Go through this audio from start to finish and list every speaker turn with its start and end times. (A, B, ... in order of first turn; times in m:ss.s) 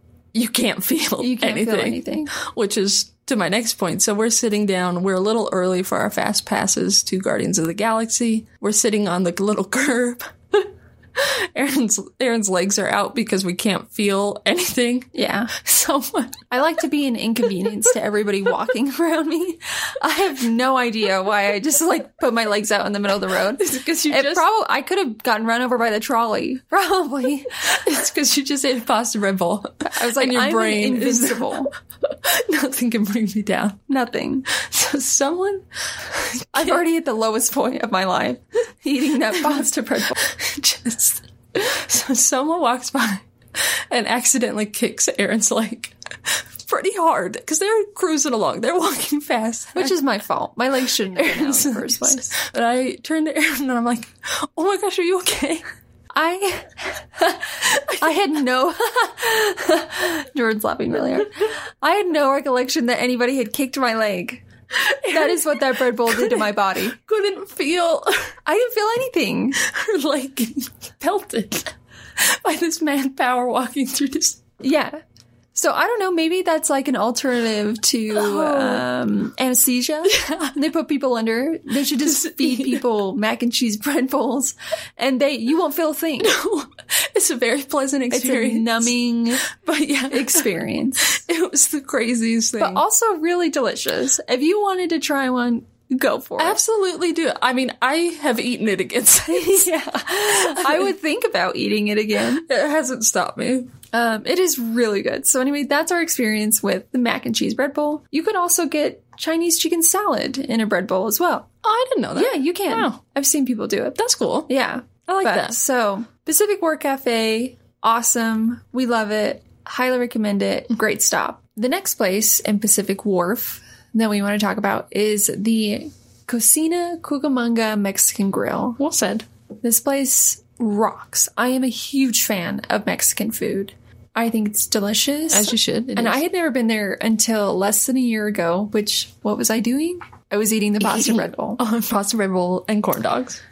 0:00.3-0:16.4 A
0:01.2-0:02.3 B
0:15.1-0:15.5 B
0:16.5-0:27.7 B
0:23.6-0:24.4 A
0:27.6-0:33.8 A
0:29.8-0:31.7 B
0:33.9-0:34.5 B
0:34.5-0:36.8 A
0:36.5-0:40.3 B
0:40.2-0:50.0 A
0:49.7-0:52.3 B
0:51.1-0:55.6 A
0:56.1-1:04.4 B
0:57.6-0:58.1 A
1:04.7-1:08.3 A
1:05.1-1:07.0 B
1:08.4-1:09.6 B
1:09.6-1:14.4 A
1:14.6-1:15.0 B
1:15.5-1:26.4 B
1:18.1-1:18.9 A
1:20.0-1:20.5 A
1:22.0-1:22.8 A
1:26.2-1:28.9 A
1:28.1-1:29.5 B
1:29.4-1:30.5 A
1:30.1-1:31.2 B
1:31.0-1:32.8 A
1:32.6-1:36.6 B
1:36.4-1:40.9 A
1:39.3-1:42.4 B
1:42.3-1:43.7 A
1:43.9-1:51.5 B
1:51.6-1:53.0 A
1:52.1-2:08.8 B
1:53.9-1:54.5 A
1:55.2-1:55.6 A
2:08.8-2:09.2 A
2:09.6-2:21.6 B
2:15.3-2:16.2 A
2:20.8-2:23.4 A